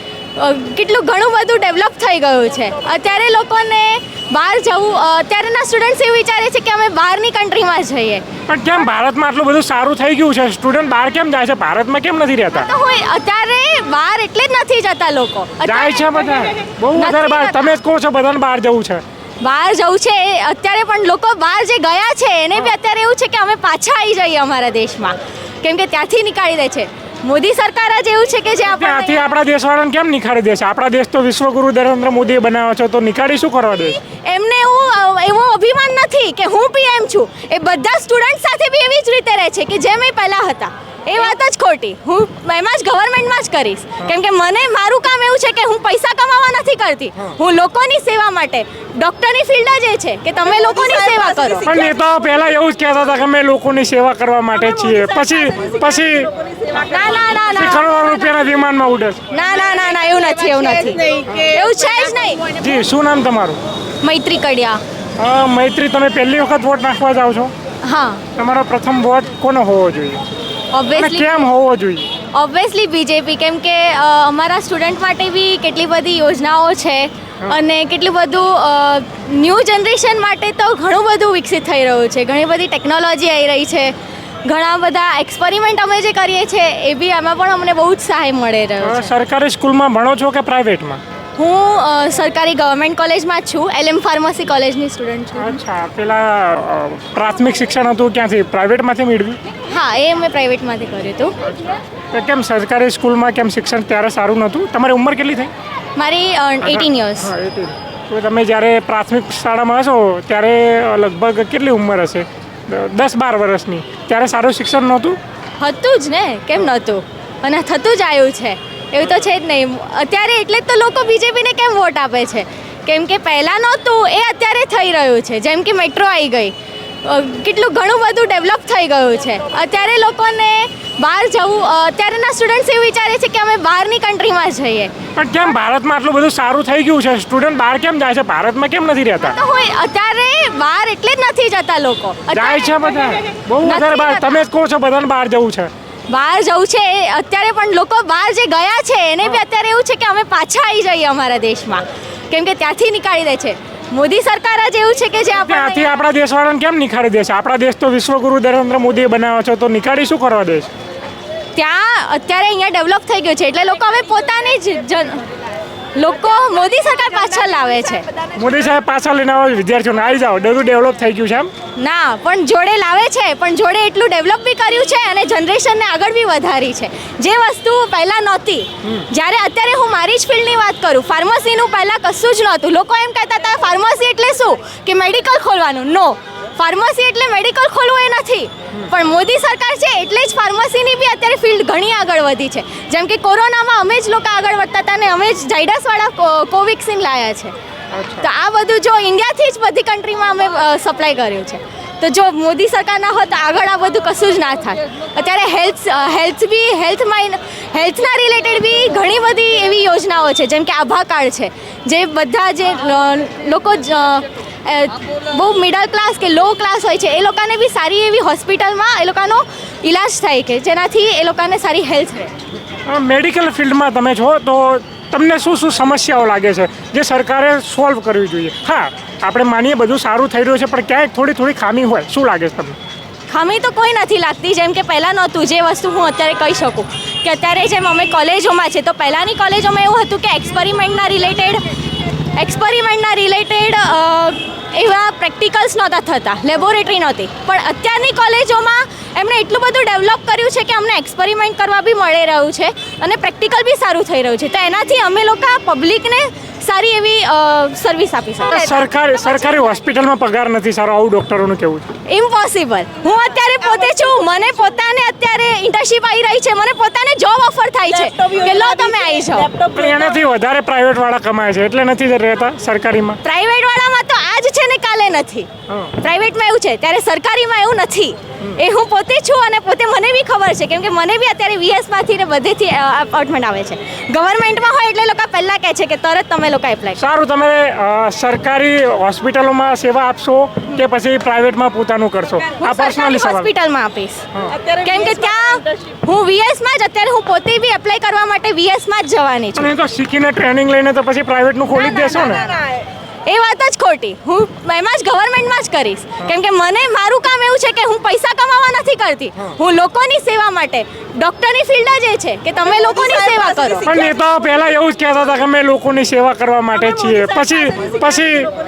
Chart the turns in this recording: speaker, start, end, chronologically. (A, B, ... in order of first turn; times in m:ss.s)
0:00.4-0:08.2 A
0:08.5-0:12.7 B
0:12.5-0:16.1 A
0:15.6-0:19.0 B
0:16.9-0:17.7 A
0:19.4-0:29.3 A
0:28.7-0:34.0 B
0:34.0-0:51.7 A
0:51.7-0:56.3 B
0:56.8-0:57.9 A
0:57.5-0:59.2 B
0:59.3-1:02.5 A
1:01.3-1:01.6 B
1:02.5-1:03.6 B
1:04.0-1:04.8 A
1:05.2-1:07.5 B
1:07.8-1:08.2 A
1:08.4-1:10.2 B
1:10.7-1:11.5 A
1:10.9-1:12.1 B
1:12.3-1:23.9 A
1:24.4-1:29.1 A
1:28.8-1:31.0 B
1:31.4-1:35.6 A
1:35.4-1:39.4 B
1:39.7-1:41.4 A
1:42.1-1:45.5 B
1:46.0-1:47.3 A
1:46.6-1:55.2 B
1:55.6-2:14.9 A
2:15.2-2:19.4 B
2:19.2-2:22.7 A
2:22.3-2:25.7 B
2:23.6-2:24.4 A
2:26.1-2:35.9 A
2:35.3-2:40.7 B
2:41.6-2:45.2 A
2:46.0-2:48.1 A
2:48.4-2:51.5 B
2:51.8-3:17.5 A
3:17.9-3:18.3 B
3:18.2-3:42.3 A
3:42.9-3:52.8 B
3:53.3-4:01.6 A
4:02.3-4:18.8 A
4:18.5-4:21.8 B
4:22.1-4:29.6 A
4:29.6-4:33.2 B
4:33.2-4:47.0 A
4:35.7-4:35.9 B
4:47.0-4:53.5 B
4:52.6-4:59.7 A
4:59.6-5:02.5 B
5:03.3-5:13.9 A
5:13.9-5:18.5 B